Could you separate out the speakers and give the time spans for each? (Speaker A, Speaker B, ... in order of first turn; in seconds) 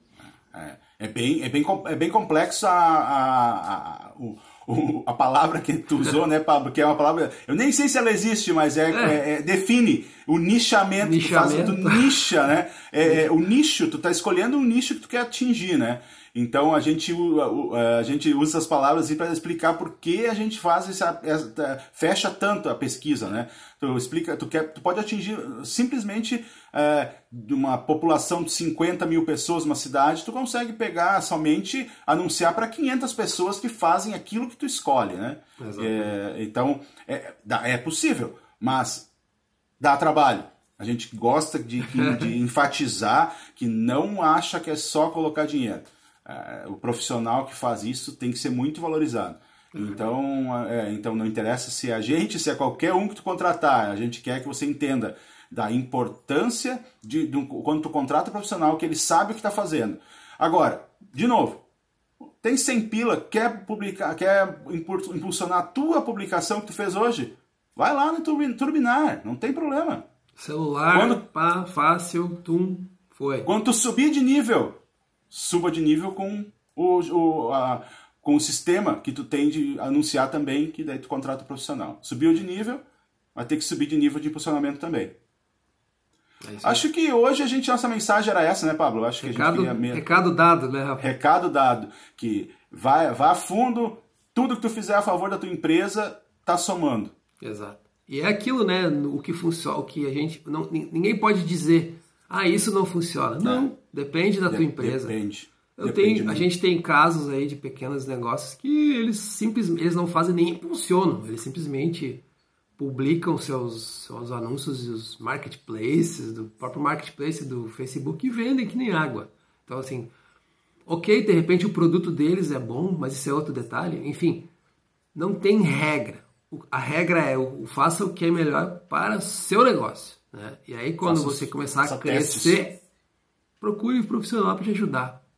Speaker A: 0.5-39.1, 39.8-61.6, 62.4-70.0, 70.9-71.2, 73.5-74.8, 75.3-82.8, 83.3-85.1, 86.6-90.0, 91.0-97.1, 103.4-103.7, 104.5-106.5, 131.0-132.6
Speaker B: 8.9-9.2, 11.0-12.4, 13.0-13.3, 35.6-36.2, 41.9-42.3, 49.7-50.1, 70.4-73.5, 86.4-86.8, 89.2-91.2, 97.4-105.2, 105.8-112.2, 112.8-120.1, 120.9-124.5, 125.2-132.8, 133.6-135.2